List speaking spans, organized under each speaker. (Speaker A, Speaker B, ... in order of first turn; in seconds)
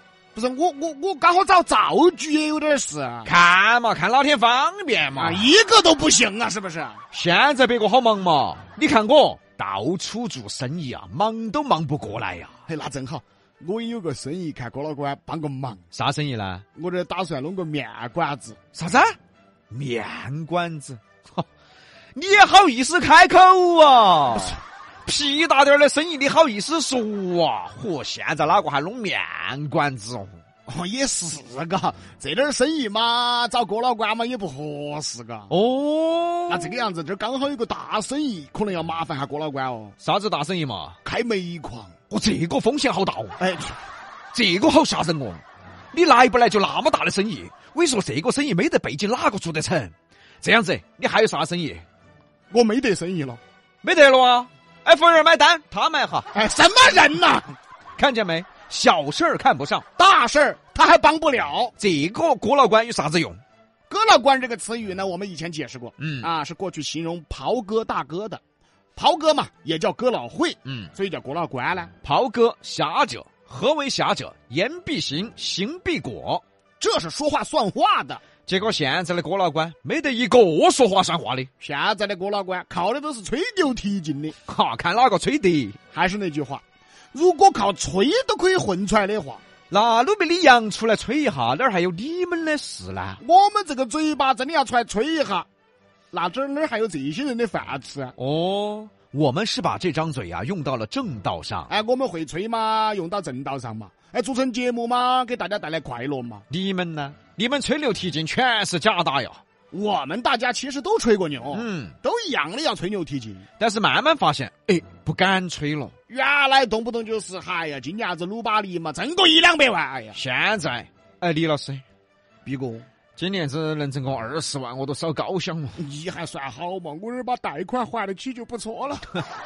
Speaker A: 0.3-3.3, 5.2-7.0, 12.7-15.8, 16.8-18.6, 30.7-35.5, 36.5-39.9, 41.0-41.9, 43.4-43.8, 52.5-53.4, 56.3-57.5, 60.0-61.7, 63.9-68.4, 69.0-71.9, 76.8-78.2, 81.6-84.3, 85.9-89.4, 93.2-95.5, 96.1-98.1, 101.7-106.4, 109.7-113.5, 116.1-120.2, 122.4-122.8, 125.8-129.1
Speaker B: 3.2-5.5, 7.1-12.5, 15.9-16.6, 18.7-19.2, 19.7-21.4, 22.1-30.4, 35.5-36.8, 40.0-41.0, 42.1-43.4, 44.3-51.8, 53.8-56.3, 58.0-59.8, 61.8-63.4, 66.0-66.3, 70.6-70.9, 72.0-76.4, 78.5-81.5, 84.4-85.8, 89.7-93.2, 98.2-101.7, 106.5-109.4, 111.5-111.9, 113.6-115.9, 120.1-121.8, 123.2-125.8